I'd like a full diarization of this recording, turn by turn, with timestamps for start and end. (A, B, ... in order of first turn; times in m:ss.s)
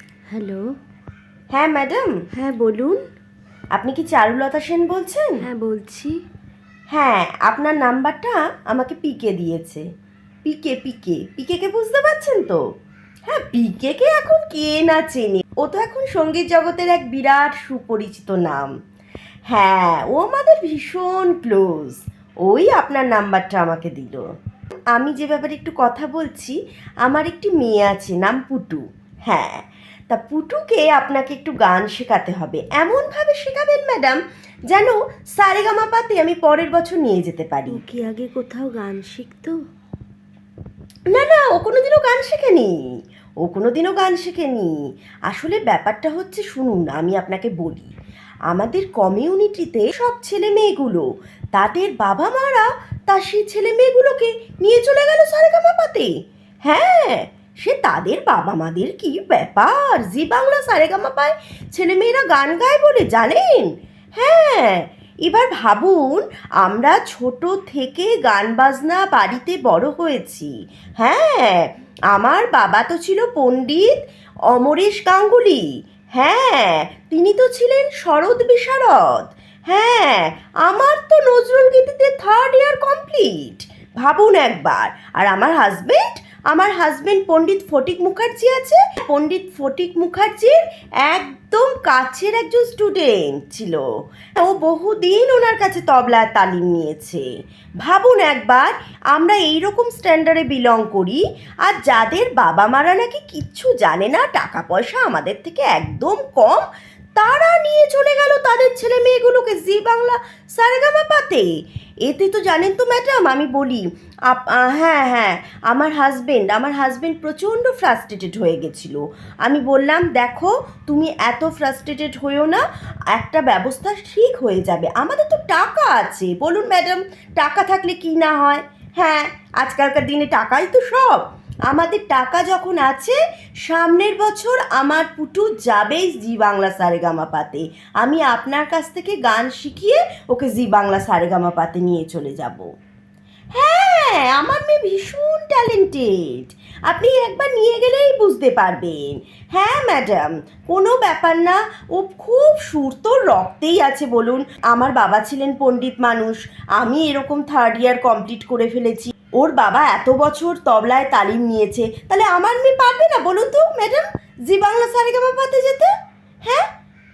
0:00.3-0:00.7 A
0:01.5-0:02.2 B
0:02.4-0:03.0 A
0:03.8-0:05.4 B
0:05.4-0:06.2 A
0:06.9-0:09.8 B
0:10.5-0:12.6 B
0:13.3-0:18.7 B
0:19.5-0:24.2 B
0:25.0-0:34.2 B
0:34.7-0:37.8 B
0:37.7-0:39.6 A
0:41.1-0:42.8 B
0:43.4-0:44.7 B
0:45.3-0:47.9 B
0:48.5-0:56.1 B
0:56.6-1:13.9 B
1:14.5-1:15.6 B
1:16.2-1:33.8 B
1:34.4-1:37.2 B
1:37.8-1:46.7 B
1:47.2-1:51.5 B
1:52.1-2:22.7 B
2:23.6-2:45.9 B